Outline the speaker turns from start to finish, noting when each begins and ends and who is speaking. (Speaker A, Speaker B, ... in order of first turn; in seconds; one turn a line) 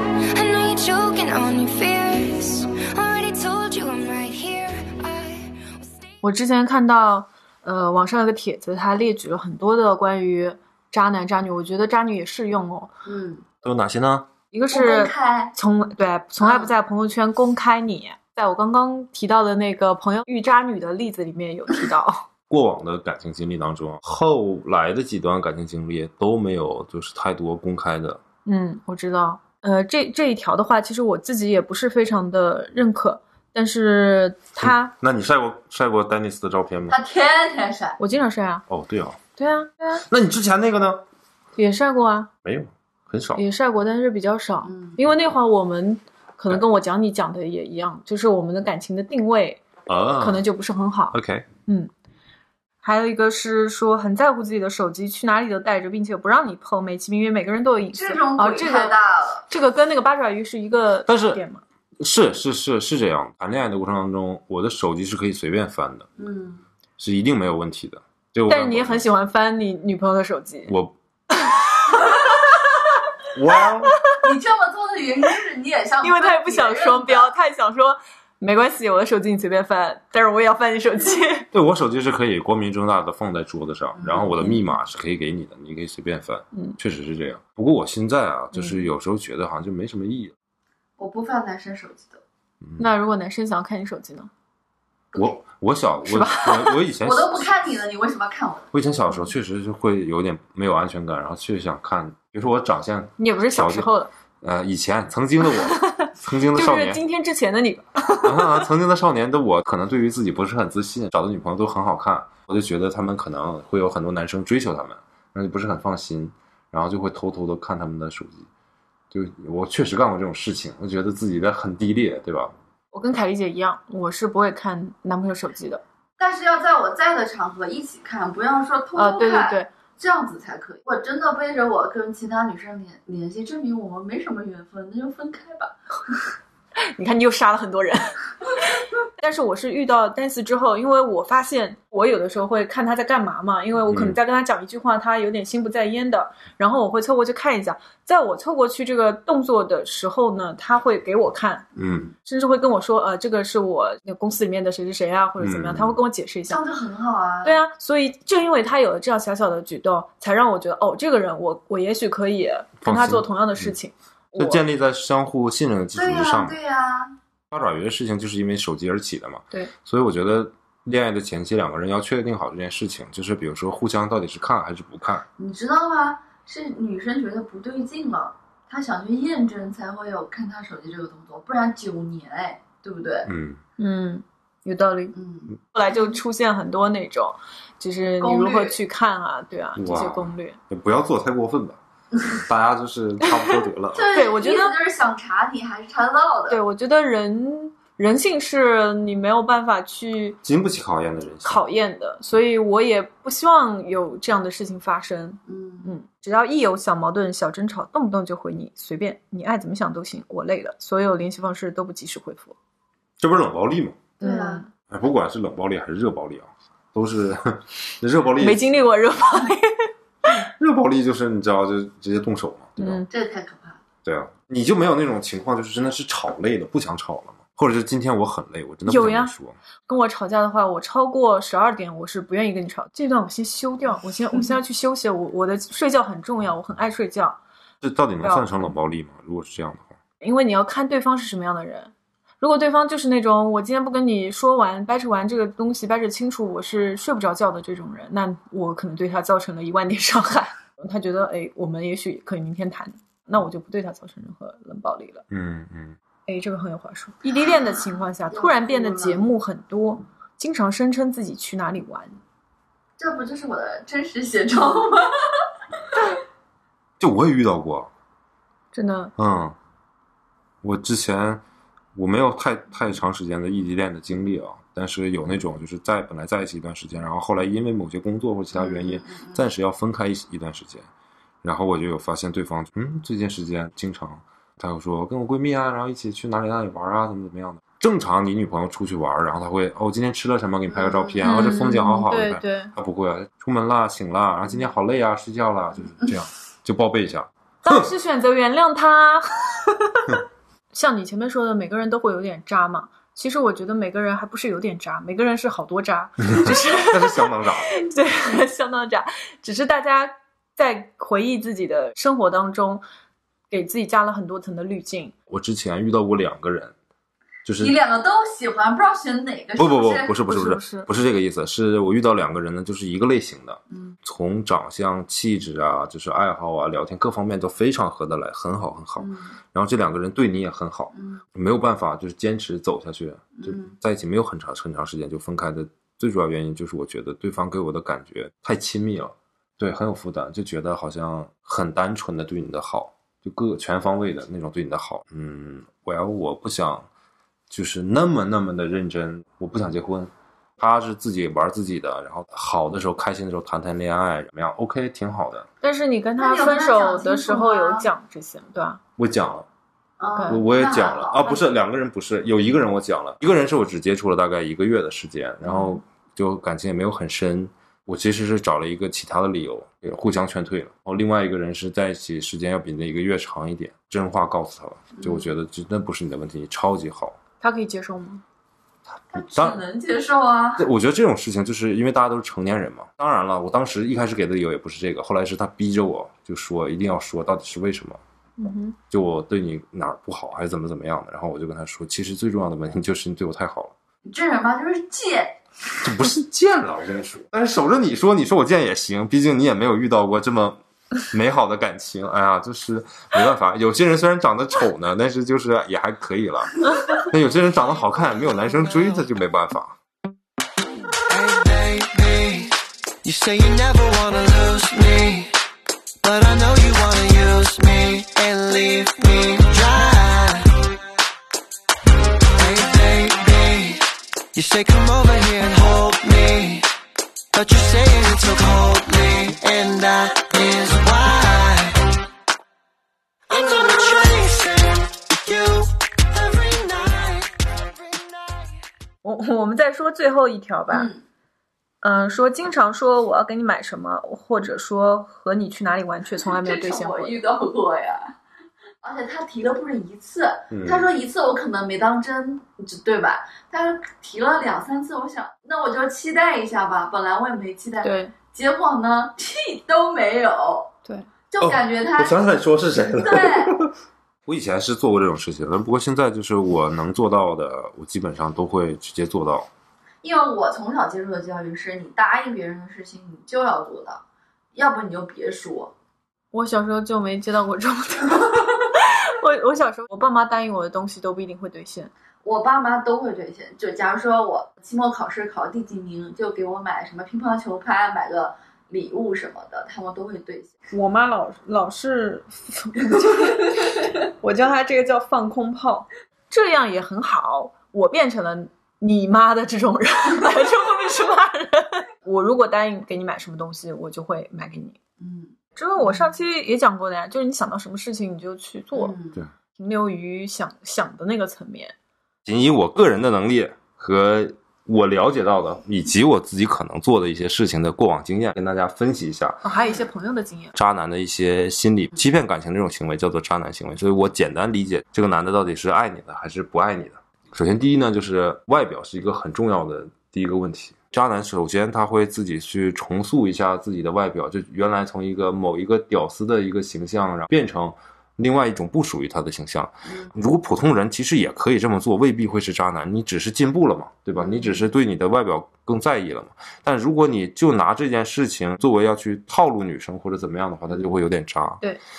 Speaker A: 0.3-6.0
Speaker B: 6.2-12.9
Speaker C: 13.0-13.4
Speaker D: 13.6-14.3
Speaker B: 14.5-22.2
Speaker C: 14.7-15.5
Speaker C: 16.4-16.7
Speaker D: 22.5-28.2
Speaker B: 28.4-34.9
Speaker D: 34.6-37.0
Speaker C: 36.9-38.0
Speaker B: 38.0-38.6
Speaker D: 38.7-39.2
Speaker B: 39.4-40.0
Speaker D: 40.1-41.0
Speaker B: 41.5-42.3
Speaker D: 42.4-43.4
Speaker B: 43.3-49.6
Speaker C: 44.6-45.0
Speaker D: 49.9-50.4
Speaker B: 50.2-51.9
Speaker D: 51.1-51.5
Speaker B: 52.8-58.9
Speaker C: 57.9-59.4
Speaker B: 59.5-61.6
Speaker D: 61.1-61.4
Speaker D: 62.0-66.1
Speaker C: 66.2-66.6
Speaker D: 67.0-69.0
Speaker B: 68.5-70.7
Speaker D: 70.7-70.9
Speaker B: 71.3-72.3
Speaker D: 73.3-73.9
Speaker C: 74.2-77.3
Speaker B: 76.0-81.5
Speaker D: 81.5-90.3
Speaker C: 84.0-84.5
Speaker B: 88.5-88.8
Speaker C: 91.0-92.2
Speaker B: 92.8-94.3
Speaker C: 95.1-95.4
Speaker D: 95.2-97.5
Speaker B: 96.0-96.8
Speaker C: 97.0-98.7
Speaker D: 98.7-103.9
Speaker B: 103.2-104.1
Speaker D: 104.4-107.0
Speaker B: 105.6-108.7
Speaker D: 108.2-118.5
Speaker D: 119.1-122.5
Speaker B: 122.9-125.8
Speaker C: 126.2-136.1
Speaker B: 128.9-129.7
Speaker B: 136.8-151.7
Speaker D: 143.9-144.2
Speaker D: 151.8-152.1
Speaker B: 152.2-156.6
Speaker D: 155.4-156.0
Speaker C: 156.5-157.5
Speaker B: 157.4-164.6
Speaker D: 162.8-163.7
Speaker D: 164.3-166.6
Speaker C: 165.9-167.1
Speaker D: 167.5-175.2
Speaker C: 175.4-183.3
Speaker D: 183.2-183.6
Speaker B: 183.8-185.1
Speaker C: 185.1-185.5
Speaker B: 185.7-190.6
Speaker C: 188.2-188.8
Speaker D: 189.8-191.8
Speaker D: 192.3-194.1
Speaker C: 193.9-196.6
Speaker B: 194.1-194.7
Speaker B: 196.5-200.4
Speaker D: 200.4-201.6
Speaker B: 201.4-212.6
Speaker C: 205.5-205.9
Speaker D: 213.2-214.0
Speaker C: 214.2-214.6
Speaker B: 214.2-214.7
Speaker D: 214.9-218.7
Speaker B: 218.4-219.9
Speaker D: 220.3-223.0
Speaker B: 222.8-223.1
Speaker C: 223.1-223.8
Speaker D: 224.0-229.6
Speaker B: 228.8-229.3
Speaker B: 229.9-237.4
Speaker D: 237.8-239.9
Speaker B: 238.2-238.7
Speaker B: 240.2-255.2
Speaker D: 255.3-256.0
Speaker B: 256.3-262.2
Speaker C: 258.3-259.2
Speaker C: 263.0-265.4
Speaker D: 267.0-267.9
Speaker B: 268.7-269.1
Speaker D: 269.2-269.6
Speaker D: 270.6-271.4
Speaker D: 271.9-280.9
Speaker C: 278.5-279.4
Speaker D: 281.4-297.9
Speaker C: 290.7-291.3
Speaker B: 291.2-292.7
Speaker B: 297.6-300.1
Speaker B: 300.7-312.8
Speaker D: 306.3-307.7
Speaker B: 313.5-315.1
Speaker D: 315.3-316.7
Speaker D: 317.4-317.8
Speaker C: 317.6-320.2
Speaker D: 319.6-346.9
Speaker B: 320.2-320.9
Speaker C: 323.7-324.0
Speaker C: 329.0-329.4
Speaker C: 330.9-331.2
Speaker C: 333.3-333.8
Speaker D: 347.5-355.4
Speaker B: 355.6-358.8
Speaker C: 356.2-357.9
Speaker D: 359.0-359.4
Speaker C: 360.0-361.5
Speaker D: 360.3-377.2
Speaker B: 365.5-365.8
Speaker C: 374.9-375.3
Speaker B: 377.4-378.2
Speaker C: 379.1-380.7
Speaker D: 379.1-379.6
Speaker D: 380.6-388.0
Speaker B: 388.4-388.8
Speaker D: 388.9-393.7
Speaker C: 394.0-395.4
Speaker D: 395.8-400.6
Speaker D: 401.1-409.8
Speaker E: 411.1-415.3
Speaker E: 416.0-420.5
Speaker E: 422.4-426.7
Speaker E: 427.3-431.8
Speaker E: 433.3-438.1
Speaker B: 439.0-440.9
Speaker C: 440.7-441.0
Speaker B: 441.8-447.2
Speaker C: 446.2-448.1
Speaker C: 448.8-460.7
Speaker D: 450.5-450.9
Speaker B: 457.8-458.1
Speaker C: 461.3-462.2
Speaker D: 461.4-463.7
Speaker C: 463.0-463.6
Speaker D: 464.2-469.5
Speaker C: 470.0-474.0
Speaker C: 474.5-475.7
Speaker B: 476.3-481.9
Speaker C: 482.2-490.5
Speaker B: 490.7-504.8
Speaker C: 505.0-506.0
Speaker B: 505.6-508.9
Speaker C: 508.7-509.2
Speaker B: 509.6-511.7
Speaker D: 512.2-519.4
Speaker B: 519.4-520.5
Speaker D: 520.5-551.6
Speaker C: 539.9-540.1
Speaker C: 544.2-544.6